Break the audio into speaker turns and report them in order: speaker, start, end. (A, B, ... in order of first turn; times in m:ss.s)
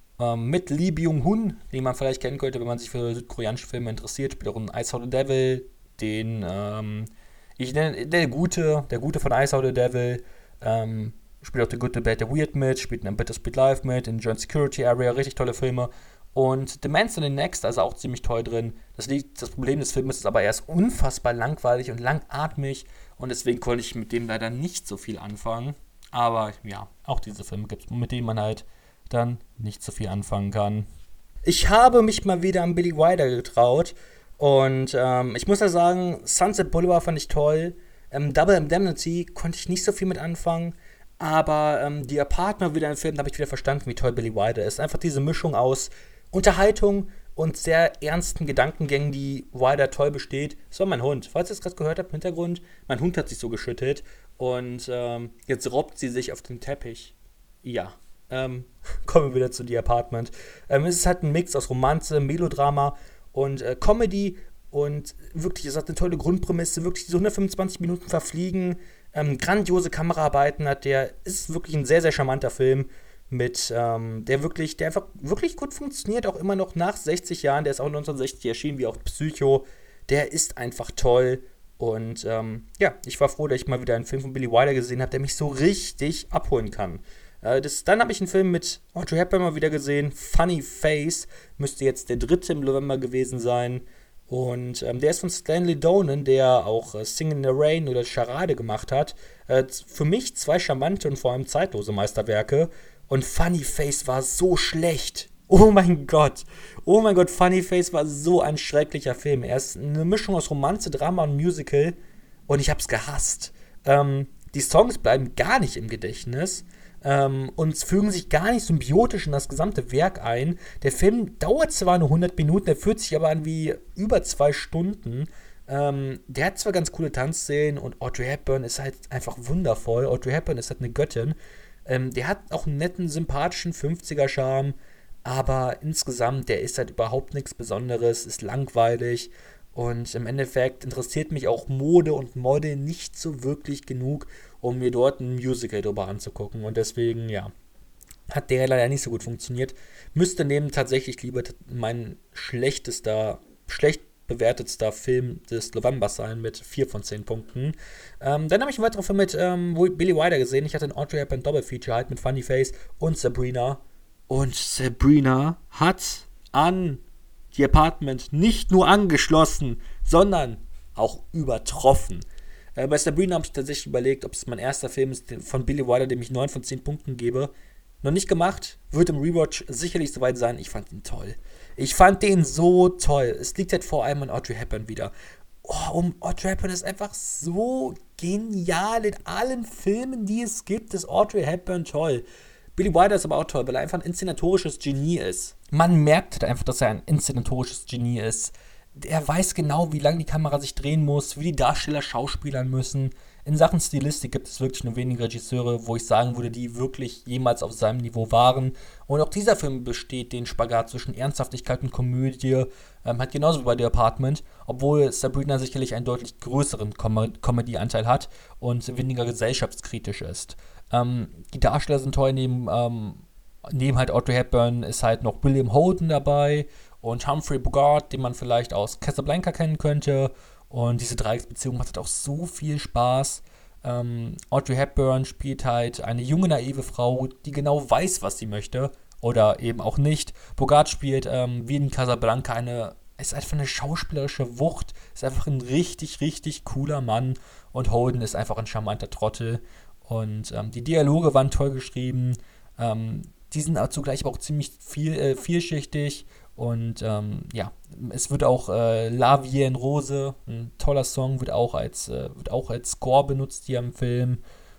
0:00.2-0:30.9 A
0:31.4-1:52.0 A
1:52.5-2:27.5 A
2:28.3-2:47.0 A
2:47.5-2:57.5 A
2:58.0-3:05.1 A
3:05.6-3:12.2 A
3:12.8-4:24.4 A